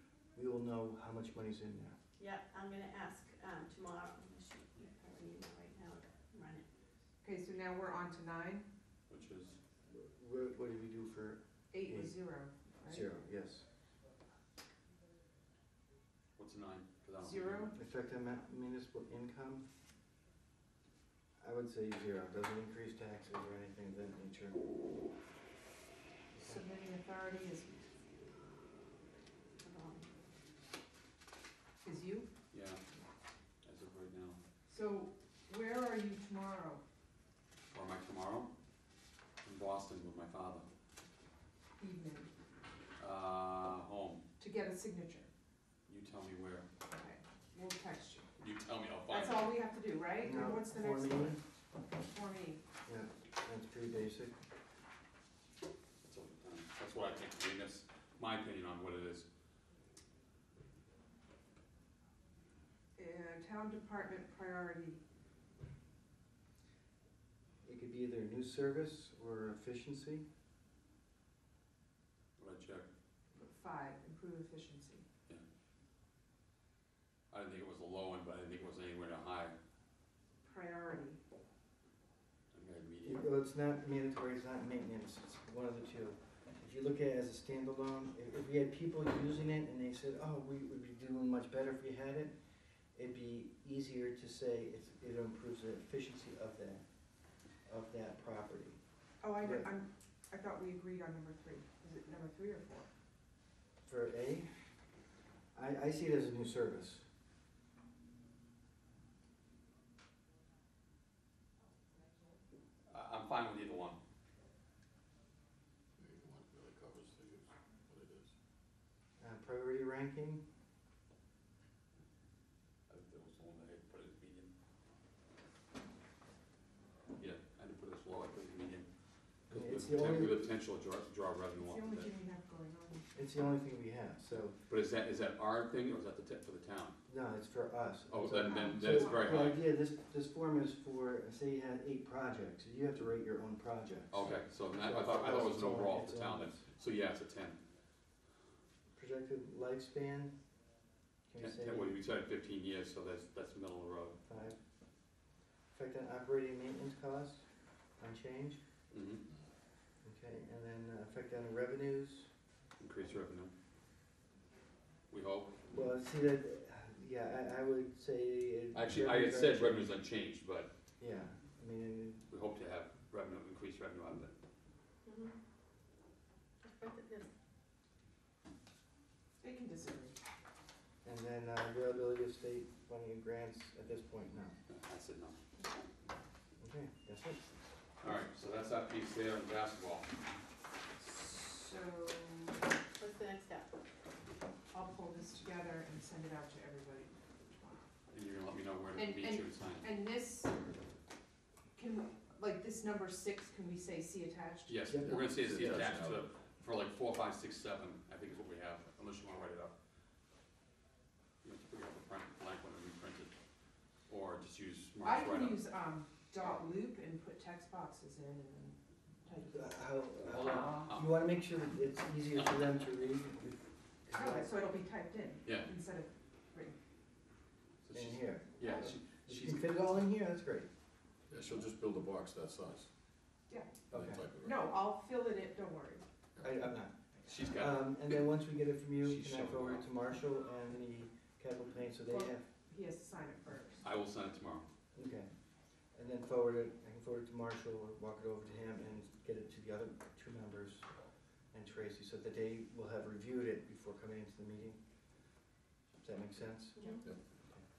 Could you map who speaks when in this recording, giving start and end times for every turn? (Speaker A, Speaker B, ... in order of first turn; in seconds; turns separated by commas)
Speaker A: 0.3-2.0, Speaker B: 2.2-6.6, Speaker C: 7.2-8.7, Speaker D: 9.1-9.6, Speaker A: 9.9-12.1, Speaker C: 11.7-13.1, Speaker A: 12.9-13.7, Speaker D: 16.4-17.7, Speaker C: 17.2-17.7, Speaker A: 17.7-19.7, Speaker A: 21.4-24.7, Speaker C: 26.4-27.9, Speaker B: 29.6-30.1, Speaker C: 31.8-32.3, Speaker D: 32.5-32.8, Speaker D: 33.6-34.4, Speaker C: 34.7-36.8, Speaker D: 37.7-38.5, Speaker D: 39.4-40.6, Speaker C: 41.8-42.3, Speaker D: 43.0-44.2, Speaker C: 44.4-45.3, Speaker D: 45.9-46.7, Speaker C: 46.9-48.3, Speaker D: 48.4-49.5, Speaker C: 49.1-51.4, Speaker A: 50.2-51.4, Speaker C: 51.9-52.6, Speaker A: 52.9-54.4, Speaker D: 56.1-59.3, Speaker C: 63.0-65.0, Speaker A: 67.7-70.3, Speaker D: 72.4-72.9, Speaker C: 73.4-75.1, Speaker D: 77.3-79.5, Speaker C: 80.4-81.2, Speaker D: 82.5-83.3, Speaker A: 83.0-92.3, Speaker A: 93.0-96.8, Speaker A: 97.7-98.8, Speaker C: 99.2-102.9, Speaker A: 99.4-99.7, Speaker A: 103.8-104.5, Speaker A: 105.5-107.0, Speaker D: 112.9-114.0, Speaker E: 116.0-118.3, Speaker A: 119.2-120.4, Speaker D: 122.9-124.5, Speaker D: 127.2-132.1, Speaker A: 129.5-130.4, Speaker C: 131.6-133.1, Speaker A: 133.2-134.6, Speaker D: 134.7-137.0, Speaker A: 137.1-146.6, Speaker D: 138.1-139.6, Speaker C: 138.4-139.5, Speaker D: 144.1-147.6, Speaker A: 148.9-150.3, Speaker A: 151.3-151.9, Speaker D: 151.4-154.2, Speaker A: 154.3-154.6, Speaker A: 155.7-157.4, Speaker A: 158.0-158.6, Speaker D: 158.9-159.2, Speaker A: 160.0-162.3, Speaker D: 162.8-163.5, Speaker D: 165.1-165.6, Speaker A: 165.7-169.9, Speaker D: 168.7-170.7, Speaker A: 171.0-172.2, Speaker D: 172.3-174.3, Speaker B: 175.1-175.3, Speaker B: 176.6-177.3, Speaker C: 179.4-180.2, Speaker A: 181.0-184.6, Speaker D: 184.7-185.4, Speaker A: 186.6-187.4, Speaker D: 188.0-190.1, Speaker C: 191.0-192.7, Speaker B: 193.0-193.7, Speaker C: 194.7-197.9, Speaker D: 198.1-199.9, Speaker C: 198.9-200.6, Speaker C: 201.8-204.8, Speaker D: 204.7-209.7, Speaker A: 204.9-205.2, Speaker E: 205.0-206.3, Speaker D: 211.4-213.3, Speaker D: 214.1-215.6, Speaker C: 215.0-220.9, Speaker A: 219.5-224.5, Speaker D: 220.2-221.2, Speaker D: 222.4-222.7, Speaker C: 224.1-226.8, Speaker D: 227.8-229.7, Speaker A: 227.9-230.7, Speaker C: 228.6-228.9, Speaker E: 231.3-232.9, Speaker C: 233.5-233.8, Speaker E: 233.9-234.7, Speaker A: 233.9-234.2, Speaker C: 234.3-236.1, Speaker A: 236.4-242.4, Speaker D: 237.3-238.3, Speaker D: 239.0-239.8, Speaker C: 242.1-243.9, Speaker D: 243.8-244.7, Speaker A: 244.9-245.3, Speaker A: 245.9-250.9, Speaker A: 251.5-254.8, Speaker A: 256.0-256.8, Speaker B: 256.8-257.0